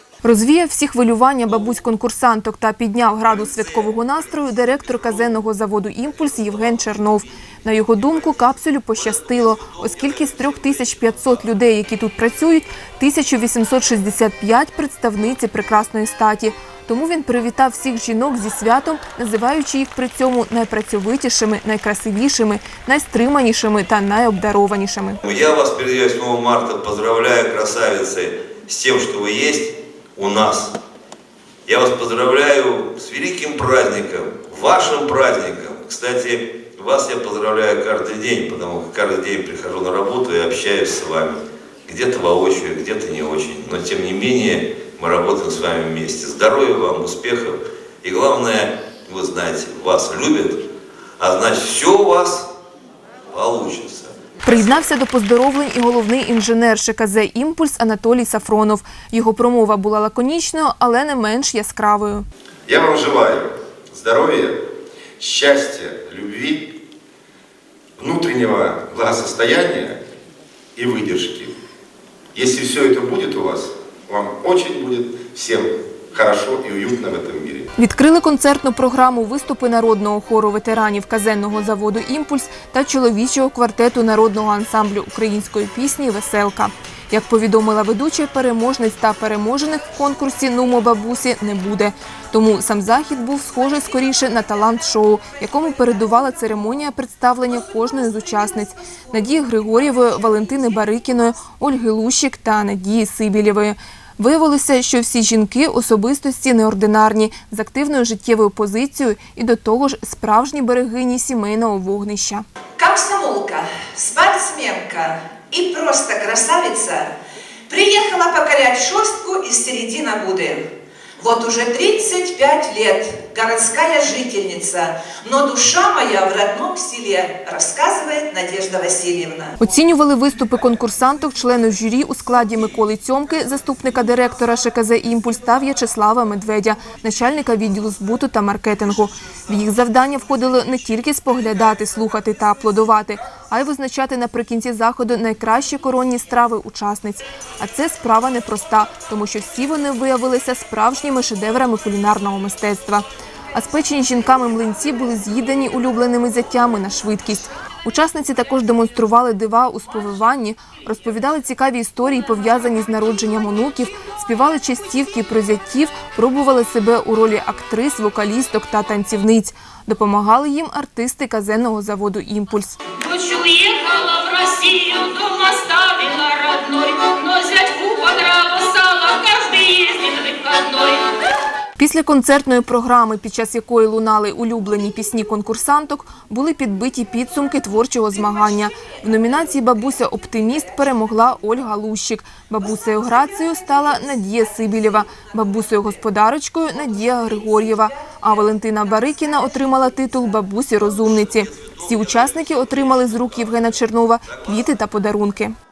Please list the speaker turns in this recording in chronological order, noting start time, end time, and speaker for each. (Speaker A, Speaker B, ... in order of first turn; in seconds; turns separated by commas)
Speaker A: 0.2-25.2, Speaker B: 25.2-30.7, Speaker B: 31.7-50.6, Speaker B: 51.2-52.5, Speaker B: 53.3-54.1, Speaker A: 54.4-62.3, Speaker C: 62.7-64.6, Speaker C: 65.2-66.7, Speaker C: 68.0-70.0, Speaker C: 70.8-71.5, Speaker C: 72.3-77.7, Speaker A: 77.8-112.5, Speaker D: 112.8-117.1, Speaker D: 117.7-120.6, Speaker D: 121.2-129.6, Speaker A: 129.6-172.8, Speaker E: 173.0-181.2, Speaker A: 181.8-205.6